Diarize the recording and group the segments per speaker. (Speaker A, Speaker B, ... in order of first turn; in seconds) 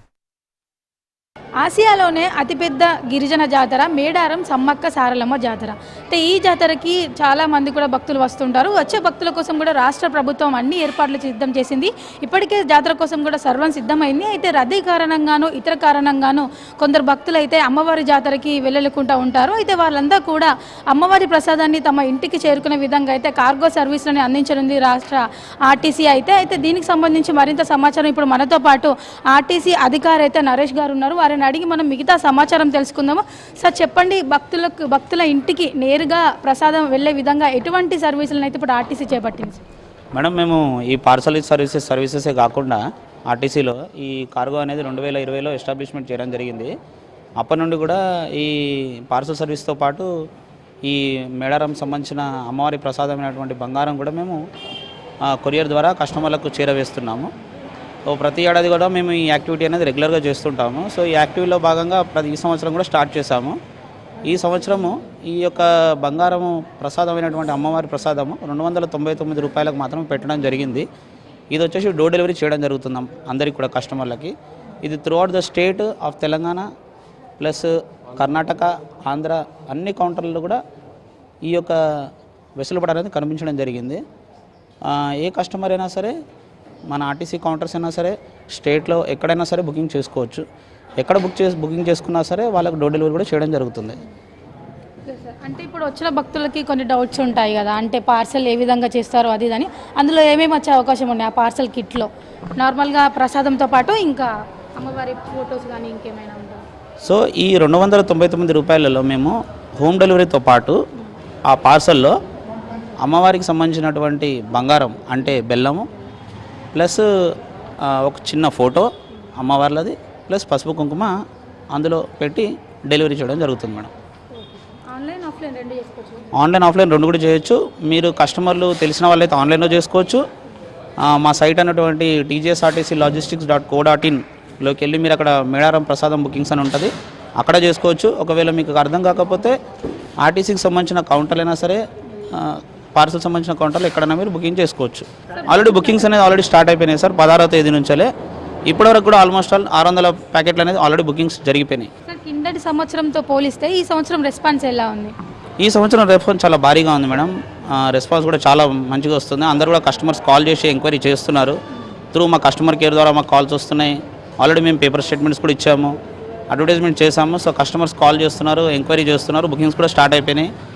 Speaker A: 1.6-39.6, 95.1-106.6, 124.4-126.3, 145.4-145.9, 152.1-155.1
Speaker B: 40.1-46.7, 47.4-50.1, 50.8-54.4, 55.3-57.3, 58.1-63.6, 64.2-70.9, 71.5-76.7, 77.4-80.6, 81.5-84.0, 84.9-86.1, 86.9-90.4, 91.0-94.0, 107.0-110.8, 111.5-112.2, 113.0-115.9, 116.7-117.0, 117.8-121.1, 121.7-123.9, 126.3-130.2, 131.1-139.6, 140.2-141.8, 142.3-148.1, 148.7-151.9, 155.6-161.6, 162.1-165.9, 166.5-170.5